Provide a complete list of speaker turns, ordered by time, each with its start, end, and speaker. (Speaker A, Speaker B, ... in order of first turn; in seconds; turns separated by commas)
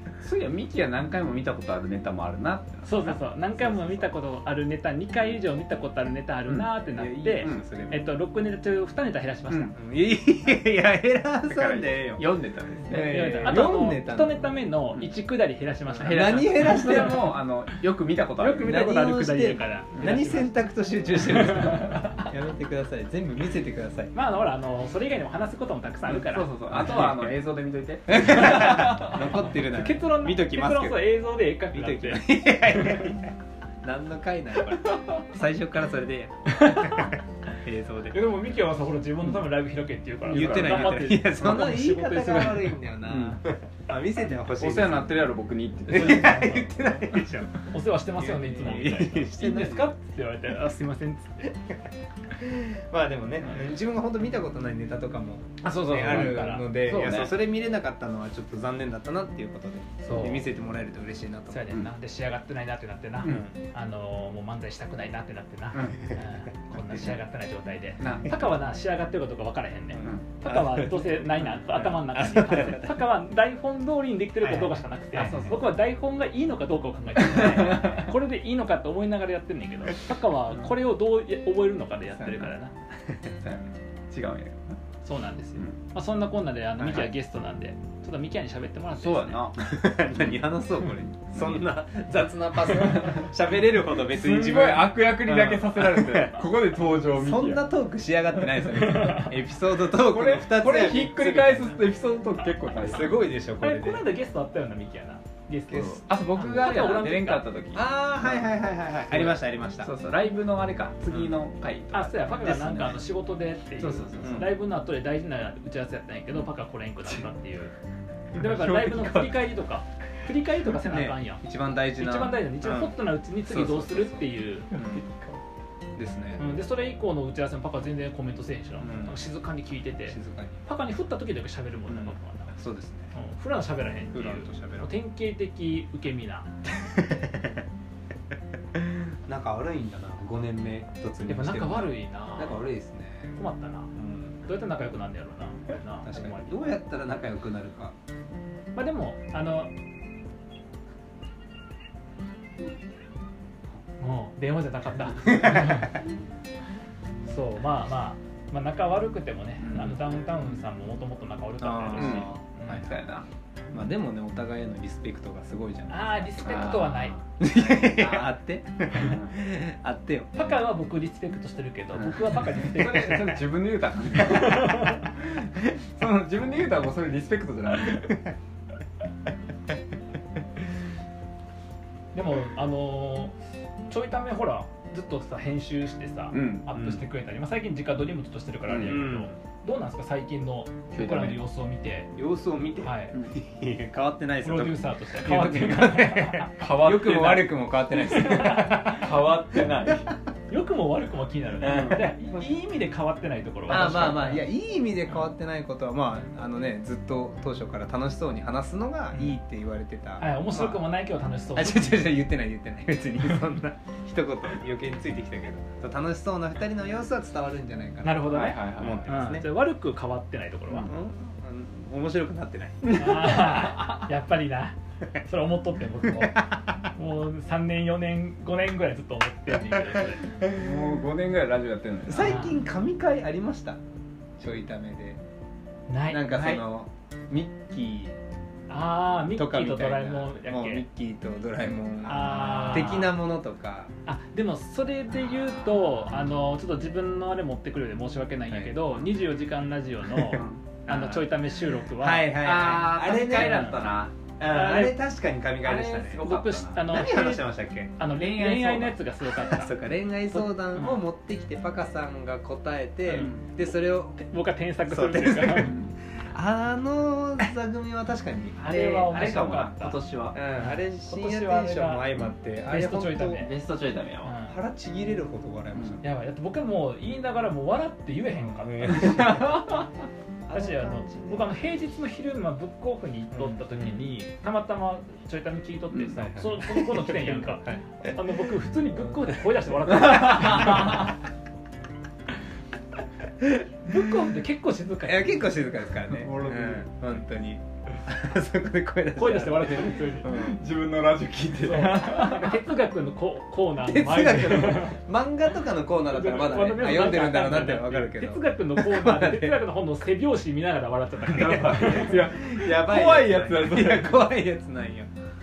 Speaker A: 0.2-3.2, Speaker B: 2.8-9.7, Speaker C: 3.6-4.1, Speaker C: 6.9-8.0, Speaker A: 9.5-9.7, Speaker C: 9.7-12.2, Speaker A: 11.4-13.6, Speaker C: 12.8-14.5, Speaker B: 12.9-17.3, Speaker C: 15.9-17.3, Speaker A: 16.0-18.7, Speaker B: 18.4-20.6, Speaker C: 18.6-24.1, Speaker B: 21.3-22.2, Speaker B: 24.1-27.1, Speaker A: 26.1-29.4, Speaker C: 26.7-27.4, Speaker C: 28.1-31.0, Speaker B: 29.4-33.0, Speaker C: 31.7-38.2, Speaker B: 36.6-37.1, Speaker B: 38.1-42.8, Speaker C: 40.3-45.2, Speaker A: 40.3-40.9, Speaker A: 43.0-43.4, Speaker A: 44.6-46.9, Speaker C: 45.9-47.6, Speaker B: 45.9-46.6, Speaker B: 47.5-51.5, Speaker C: 48.2-49.9, Speaker C: 52.4-61.7, Speaker B: 55.6-56.7, Speaker A: 56.0-57.3, Speaker B: 60.0-60.5, Speaker B: 61.5-82.7, Speaker A: 65.7-66.0, Speaker A: 68.0-68.4, Speaker C: 69.9-73.0, Speaker C: 74.4-75.6, Speaker A: 75.2-75.6, Speaker A: 77.5-78.1, Speaker A: 82.1-82.5, Speaker A: 83.4-84.6, Speaker B: 85.0-89.4, Speaker C: 86.8-87.1, Speaker A: 88.9-89.8, Speaker C: 89.6-96.4, Speaker A: 91.3-91.6, Speaker A: 92.6-93.3, Speaker A: 94.1-97.6, Speaker C: 97.0-101.9, Speaker B: 98.7-99.3, Speaker A: 99.9-103.3, Speaker C: 102.7-104.0, Speaker B: 103.6-107.4, Speaker C: 105.7-106.0, Speaker A: 105.7-113.0, Speaker C: 107.7-109.9, Speaker C: 111.1-111.4, Speaker B: 111.9-117.7, Speaker A: 113.8-114.5, Speaker C: 114.2-114.5, Speaker B: 118.3-121.4, Speaker A: 118.4-119.3, Speaker C: 120.8-125.0, Speaker B: 122.0-124.7, Speaker A: 124.7-125.4, Speaker C: 126.0-126.6, Speaker B: 126.4-132.6, Speaker C: 128.8-129.2, Speaker C: 130.1-130.6, Speaker A: 131.9-132.1, Speaker C: 132.6-133.1, Speaker B: 133.1-136.5, Speaker C: 134.1-134.9, Speaker C: 136.9-137.6, Speaker C: 138.8-143.3, Speaker B: 141.3-142.7, Speaker B: 143.3-143.9, Speaker C: 143.9-144.4, Speaker B: 144.4-146.5, Speaker C: 146.0-147.9, Speaker B: 148.7-149.7, Speaker B: 154.0-156.0, Speaker C: 155.2-155.8, Speaker B: 157.2-162.8, Speaker A: 159.6-160.0, Speaker C: 161.6-163.0, Speaker A: 161.9-163.2, Speaker C: 163.7-166.3, Speaker B: 165.9-167.2, Speaker A: 166.4-168.3, Speaker C: 167.4-170.3, Speaker A: 168.9-169.3, Speaker B: 170.3-173.5, Speaker A: 172.0-178.1, Speaker B: 174.1-175.0, Speaker B: 182.1-183.3, Speaker B: 183.9-192.1, Speaker A: 186.3-187.0, Speaker A: 188.7-189.1, Speaker C: 188.8-189.3, Speaker A: 190.9-191.4, Speaker C: 192.1-199.1, Speaker B: 192.8-193.2, Speaker B: 194.4-196.5, Speaker A: 196.6-197.6, Speaker B: 198.0-199.0, Speaker A: 198.8-200.1, Speaker B: 200.5-204.4, Speaker A: 201.6-202.4, Speaker C: 201.6-202.0, Speaker C: 203.7-210.8, Speaker B: 210.2-212.2, Speaker C: 211.5-219.4, Speaker B: 218.0-220.9, Speaker A: 218.3-219.1, Speaker C: 220.7-223.3, Speaker A: 222.8-224.0, Speaker B: 222.9-226.4, Speaker C: 226.2-226.6, Speaker B: 226.9-230.3, Speaker A: 230.5-232.5, Speaker C: 232.1-233.8, Speaker B: 232.2-232.6, Speaker C: 234.4-235.2, Speaker B: 235.9-236.2, Speaker C: 236.1-238.1, Speaker A: 236.3-236.6, Speaker B: 238.7-240.8, Speaker C: 239.3-243.9, Speaker B: 242.1-243.2, Speaker B: 244.1-252.4, Speaker C: 248.5-249.1, Speaker C: 250.1-251.0, Speaker A: 250.3-251.3, Speaker C: 252.0-253.8, Speaker A: 252.4-254.1, Speaker B: 253.3-253.8, Speaker C: 254.4-256.2, Speaker B: 254.4-255.0, Speaker A: 255.6-257.0, Speaker B: 256.2-257.4, Speaker C: 256.8-257.9, Speaker B: 258.0-259.7, Speaker A: 258.1-259.0, Speaker C: 259.2-264.2, Speaker B: 260.3-261.0, Speaker A: 263.1-263.4, Speaker B: 264.1-265.7, Speaker C: 264.9-265.8, Speaker A: 265.6-265.9, Speaker C: 266.3-269.2, Speaker B: 268.6-270.0, Speaker A: 269.1-270.4, Speaker C: 270.3-273.4, Speaker B: 270.6-272.1, Speaker B: 272.7-273.5, Speaker A: 273.3-274.4, Speaker B: 274.2-274.5, Speaker C: 274.4-276.0, Speaker A: 275.7-276.0, Speaker B: 276.0-279.6, Speaker C: 278.3-279.6, Speaker A: 279.0-279.8, Speaker C: 280.5-281.5, Speaker B: 280.5-291.1, Speaker C: 283.3-284.0, Speaker A: 285.9-286.3, Speaker C: 286.2-288.1, Speaker C: 289.1-289.4, Speaker C: 289.9-290.1, Speaker A: 289.9-291.0, Speaker C: 293.4-294.0, Speaker B: 293.8-295.4, Speaker C: 295.0-300.2, Speaker A: 296.1-297.0, Speaker B: 299.1-300.3, Speaker A: 300.2-302.5, Speaker B: 301.6-305.0, Speaker C: 303.8-309.6, Speaker B: 306.1-312.2, Speaker C: 311.3-315.1, Speaker A: 311.3-314.3